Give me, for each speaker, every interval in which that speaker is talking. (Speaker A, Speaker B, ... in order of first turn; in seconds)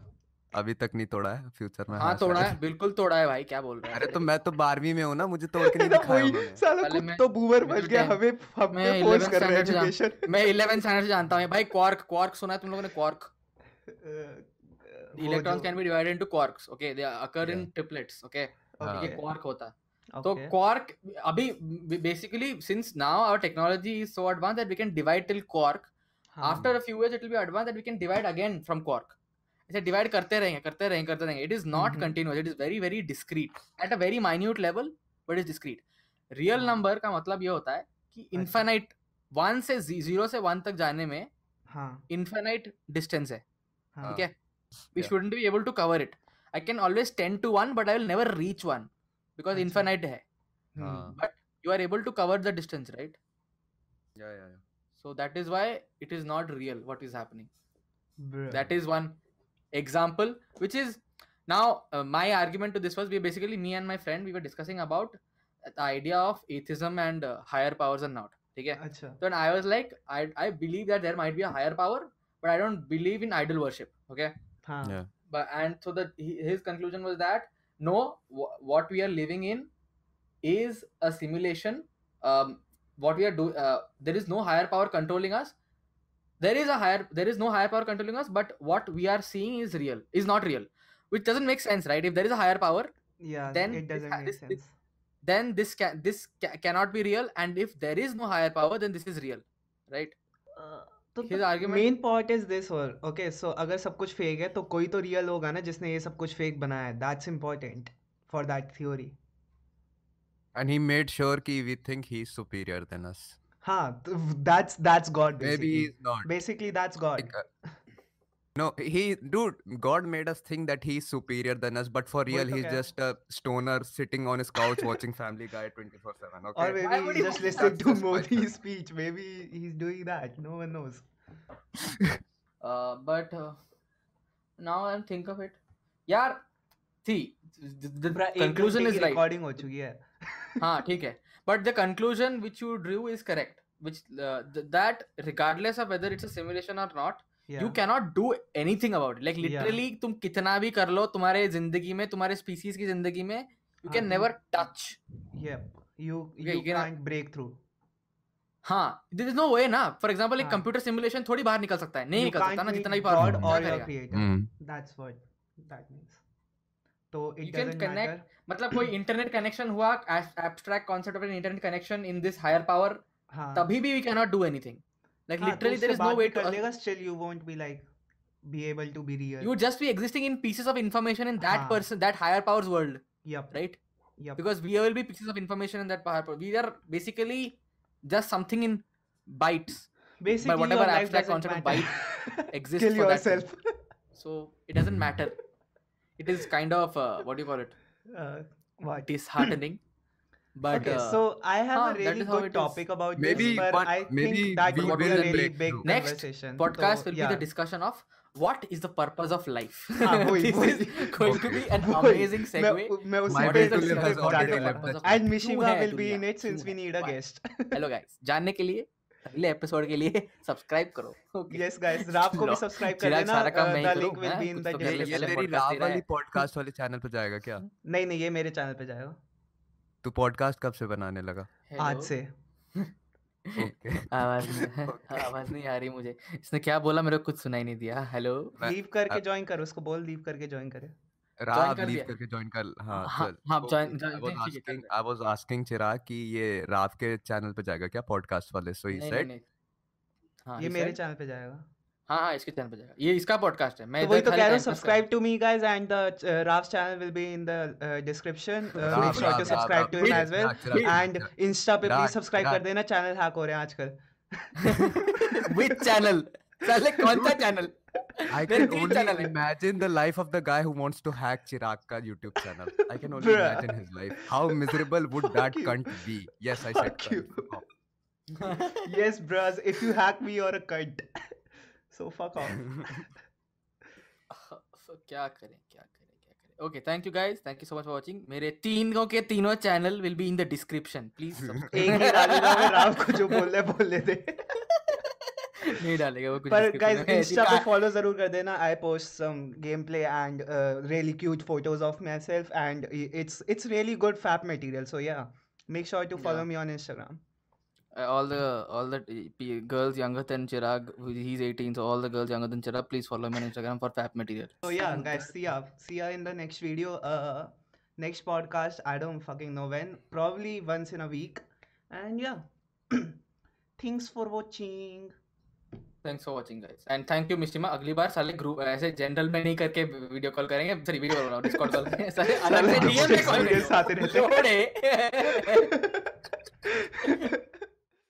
Speaker A: 0.5-2.6, 3.9-6.6, 17.4-17.7, 18.8-19.1, 50.8-51.2, 54.2-54.6, 110.5-113.4, 115.4-116.3, 117.2-117.4, 118.6-128.5, 163.2-163.5, 164.1-164.5, 203.2-205.8, 211.2-211.7, 213.3-215.2, 224.8-227.7, 230.0-231.5, 233.6-235.4, 238.6-239.2, 241.4-249.3, 258.8-261.3, 261.8-262.6, 268.3-277.7, 291.4-291.7, 332.7-333.7
Speaker B: 2.0-4.2, 6.8-8.2, 8.7-13.3, 15.2-25.9, 26.4-29.1, 29.7-35.8, 36.3-41.3, 42.1-43.4, 44.1-44.3, 45.0-50.2, 51.1-53.2, 55.0-57.5, 58.5-59.2, 59.7-74.3, 75.3-79.7, 80.4-85.5, 86.4-92.9, 93.5-94.6, 95.2-100.2, 101.3-102.0, 126.8-127.8, 132.6-133.6, 134.6-136.4, 137.0-139.2, 140.6-155.0, 156.4-156.9, 158.6-163.9, 167.4-173.0, 173.6-176.6, 179.4-183.8, 184.4-192.0, 192.5-193.5, 194.1-195.3, 196.2-197.8, 199.1-199.8, 200.6-201.2, 201.7-203.7, 204.7-217.2, 217.7-226.4, 231.7-232.1, 233.5-238.6, 241.5-242.1, 242.9-244.9, 248.9-249.4, 250.5-251.0, 252.1-255.0, 258.8-261.0, 264.6-269.3, 278.4-278.9, 284.3-293.4, 294.9-297.7, 306.2-306.5, 307.9-315.3, 326.0-335.7, 337.1-337.3
Speaker C: 5.6-10.3, 14.0-15.7, 18.8-19.2, 20.1-20.5, 26.4-26.7, 31.7-32.1, 36.5-36.8, 38.3-38.7, 41.7-42.0, 44.0-44.2, 49.5-49.9, 50.8-51.1, 58.2-58.7, 68.8-69.2, 74.7-75.0, 93.2-94.7, 100.6-109.2, 113.6-117.3, 122.3-122.9, 126.6-131.1, 138.1-140.6, 147.5-147.8, 149.4-149.8, 153.9-154.3, 155.3-157.6, 160.4-160.7, 162.2-166.2, 167.1-168.3, 173.3-173.7, 175.4-177.9, 178.4-179.5, 181.4-181.9, 183.2-183.6, 190.2-193.6, 198.1-199.6, 200.7-207.4, 210.0-217.8, 221.5-225.5, 227.8-229.2, 231.8-232.3, 238.6-240.9, 250.6-251.7, 254.0-265.8, 266.8-267.4, 268.5-269.1, 273.1-274.6, 275.2-276.0, 276.6-277.6, 278.5-281.0, 281.9-283.1, 291.7-294.6, 296.5-307.2, 314.6-323.2, 323.8-325.1, 332.4-334.5, 335.2-337.4